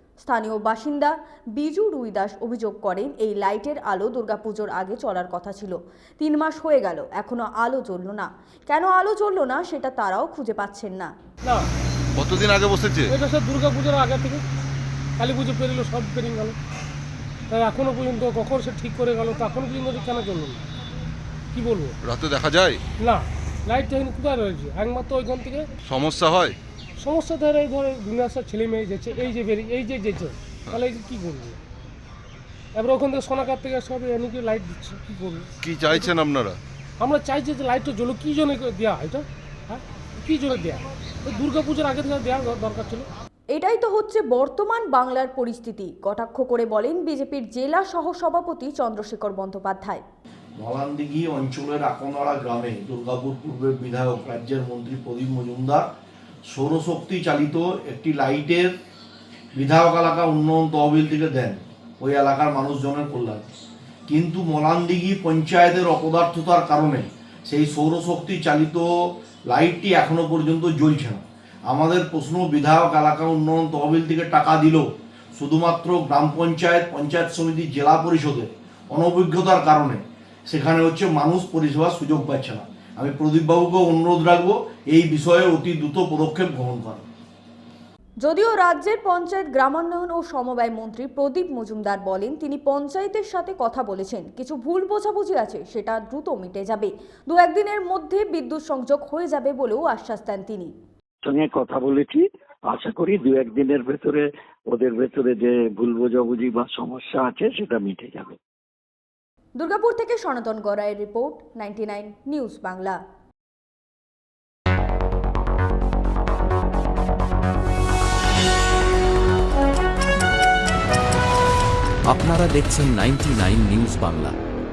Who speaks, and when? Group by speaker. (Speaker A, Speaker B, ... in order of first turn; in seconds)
Speaker A: 0.2-11.1, 43.5-50.0, 88.2-100.7, 109.6-113.0
Speaker B: 12.2-13.1, 22.0-22.8, 25.9-26.6, 35.6-36.6
Speaker C: 13.1-14.4, 15.2-16.6, 17.5-20.6, 21.5-21.9, 23.0-25.7, 27.0-31.6, 32.8-36.1, 37.0-43.1
Speaker D: 50.6-55.9, 56.5-58.7, 59.6-63.5, 64.1-68.9, 69.5-87.0
Speaker E: 101.2-108.4
Speaker F: 122.1-124.4